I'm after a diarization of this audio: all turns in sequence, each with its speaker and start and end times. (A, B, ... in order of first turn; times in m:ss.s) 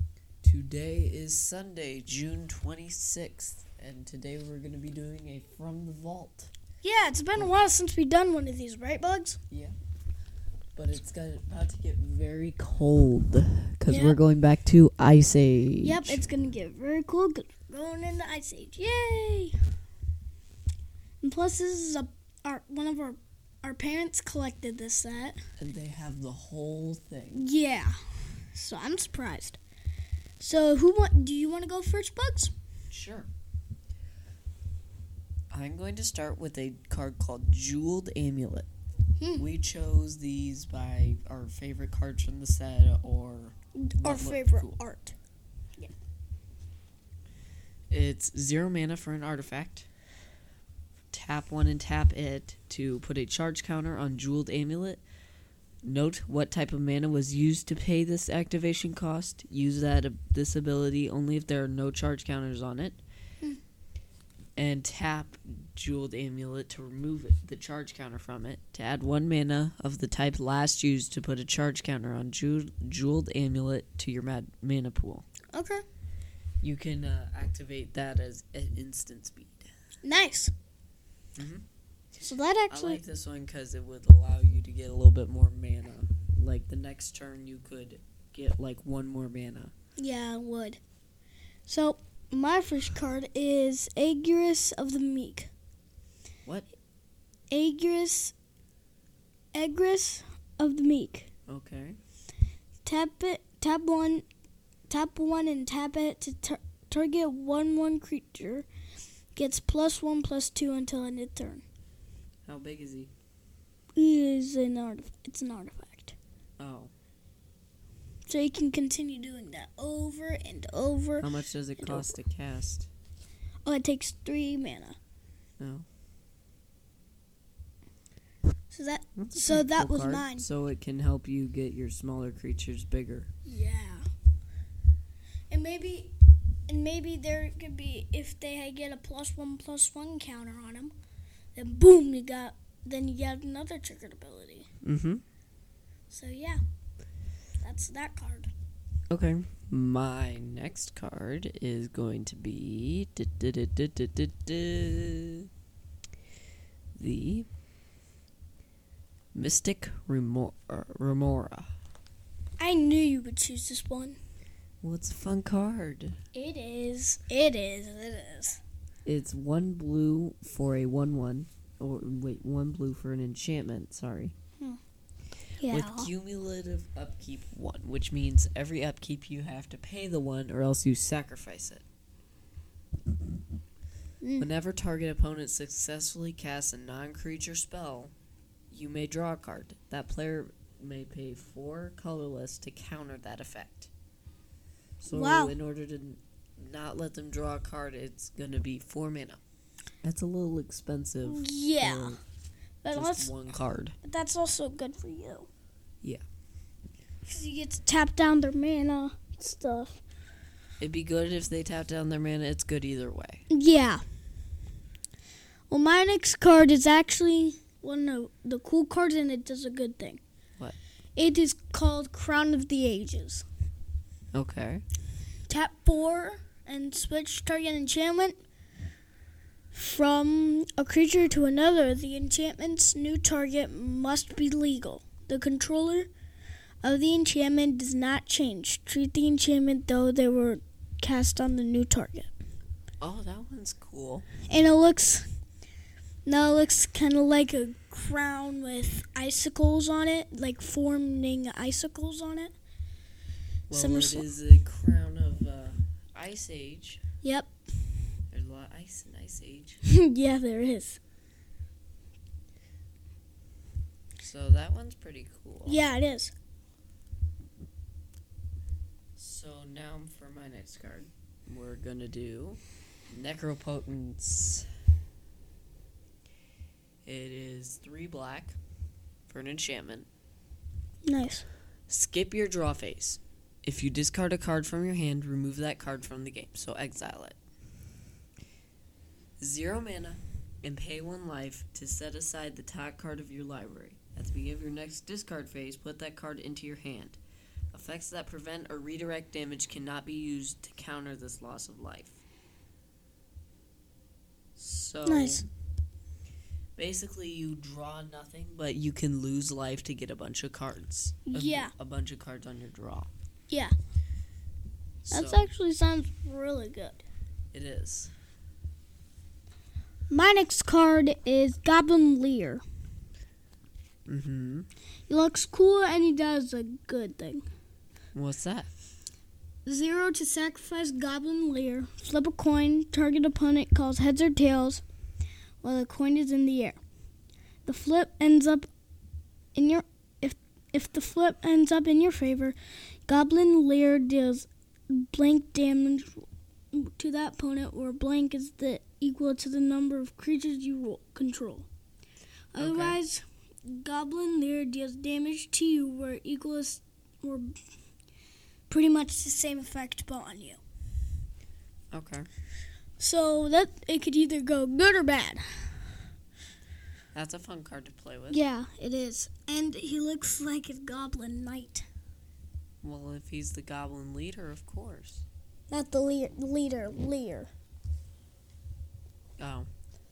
0:00.4-0:06.5 A
0:06.8-0:09.4 B
0:09.5-0:09.7 A
0:10.8-0:16.2 A
0:13.9-0:14.2 B
0:15.8-0:19.6 B
0:21.2-0:25.4 B
0:25.6-0:27.5 A
0:27.3-0:29.6 B
0:30.4-0:32.5 B
0:32.9-0:33.3 A
0:35.5-0:38.7 A
0:39.2-0:39.4 B
0:39.4-0:44.8 A
0:43.8-0:45.1 B
0:47.9-0:49.9 A
0:51.1-0:55.0 A
0:55.8-1:03.0 A
1:04.6-1:15.2 A
1:15.5-1:15.8 B
1:16.6-1:19.7 A
1:20.0-1:20.5 B
1:21.4-1:21.6 A
1:22.2-1:23.0 B
1:22.7-1:29.7 A
1:30.0-1:30.8 B
1:31.6-1:35.5 B
1:37.5-1:38.3 B
1:39.5-1:41.3 B
1:41.5-1:42.0 A
1:42.8-1:44.2 B
1:44.9-1:48.7 B
1:49.3-1:51.6 B
1:52.4-1:53.1 A
1:54.0-1:56.2 B
1:56.6-1:56.9 A
1:58.3-2:01.3 B
2:01.2-2:02.9 A
2:01.8-2:02.1 B
2:03.6-2:05.0 B
2:05.6-2:05.8 A
2:08.7-2:10.4 B
2:09.2-2:13.3 A
2:13.4-2:14.0 B
2:15.5-2:16.1 B
2:16.7-2:20.9 B
2:21.5-2:24.7 B
2:24.8-2:25.2 A
2:26.1-2:26.6 B
2:27.6-2:28.5 B
2:29.1-2:35.5 A
2:37.0-2:37.5 A
2:39.3-2:41.7 A
2:42.6-2:44.2 B
2:44.8-2:46.2 A
2:46.3-2:48.6 B
2:49.0-2:54.3 A
2:55.6-2:56.1 B
2:55.7-3:01.8 A
3:04.2-3:04.5 B
3:04.4-3:08.1 A
3:08.7-3:13.9 A
3:15.0-3:19.4 A
3:15.1-3:15.5 B
3:20.0-3:22.2 A
3:21.2-3:22.2 B
3:22.8-3:23.3 B
3:22.9-3:23.9 A
3:24.0-3:25.5 B
3:27.2-3:30.0 B
3:30.8-3:33.4 A
3:33.5-3:34.0 B
3:35.7-3:40.2 B
3:41.2-3:43.4 B
3:44.3-3:44.8 A
3:45.5-3:48.4 B
3:49.7-3:56.1 B
3:56.8-4:02.3 B
4:03.0-4:04.2 A
4:04.5-4:05.3 B
4:06.2-4:12.5 B
4:13.7-4:17.0 A
4:13.7-4:14.2 B
4:17.2-4:17.5 B
4:18.3-4:19.8 A
4:19.8-4:21.0 B
4:24.2-4:25.8 A
4:25.6-4:26.3 B
4:29.2-4:34.7 A
4:37.0-4:38.6 A
4:39.3-4:40.1 A
4:41.0-4:41.4 B
4:41.9-4:47.4 A
4:49.4-4:57.2 A
4:57.7-5:02.2 A
5:04.6-5:05.4 A
5:05.0-5:05.4 B
5:06.8-5:13.1 A
5:11.3-5:11.7 B
5:15.0-5:15.5 A
5:15.1-5:17.0 B
5:17.5-5:18.1 A
5:20.1-5:22.6 B
5:24.1-5:24.7 A
5:25.1-5:27.4 B
5:28.1-5:28.7 A
5:29.6-5:34.8 B
5:35.6-5:36.8 B
5:37.6-5:38.7 B
5:39.5-5:51.7 B
5:52.5-5:57.5 B
5:52.6-5:53.0 A
5:58.7-6:00.6 B
6:01.9-6:02.3 A
6:03.0-6:05.8 B
6:07.1-6:08.4 A
6:08.3-6:11.8 B
6:12.8-6:15.2 A
6:15.7-6:17.5 B
6:19.4-6:19.7 A